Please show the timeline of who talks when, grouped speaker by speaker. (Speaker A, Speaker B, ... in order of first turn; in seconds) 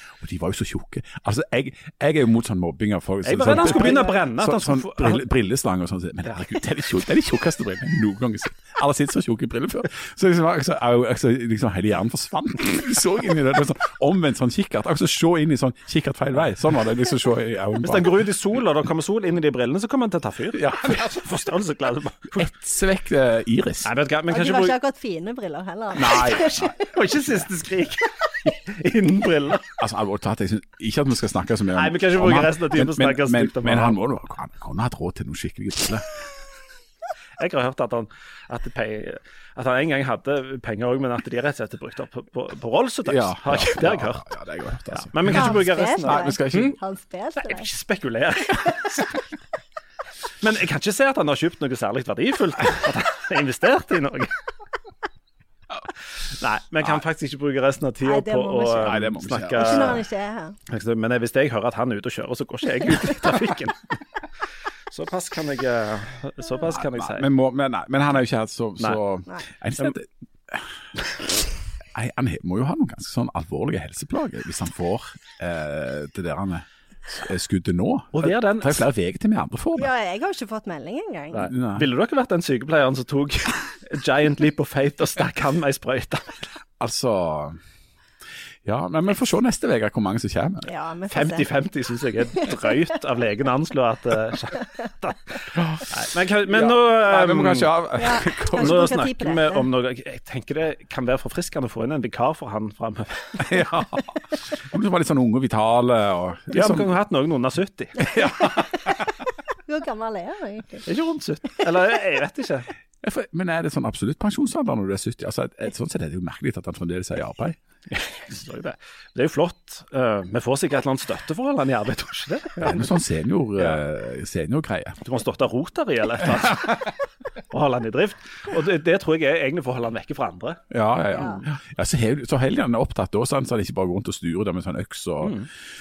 Speaker A: 0.2-18.2, 20.5-21.2, 22.4-23.9, 25.9-27.5, 29.8-36.2, 43.1-46.8, 58.8-60.0, 66.7-70.7, 71.9-79.9, 81.5-81.9, 86.8-87.6, 88.7-90.7, 95.5-96.0, 96.5-99.0, 103.4-107.0, 108.0-109.2, 113.0-117.6, 122.6-125.0, 130.7-135.4
Speaker B: 3.2-5.2, 17.8-22.5, 23.8-24.8, 26.8-29.8, 31.7-34.0, 37.4-44.2, 44.9-46.8, 47.4-49.2, 50.4-54.3, 56.3-60.0, 60.7-64.0, 64.9-67.3, 78.1-78.8, 81.3-86.5, 91.1-97.8, 98.5-103.5, 106.5-108.1, 110.9-112.7, 117.9-122.9, 125.0-126.9, 127.5-130.6, 135.2-135.5
Speaker C: 3.4-4.2, 24.3-26.9, 45.3-47.7, 48.6-49.0, 58.0-60.6, 79.8-81.5, 90.6-91.5, 92.4-92.7, 98.0-99.7, 108.2-108.6, 109.7-110.9, 131.1-131.4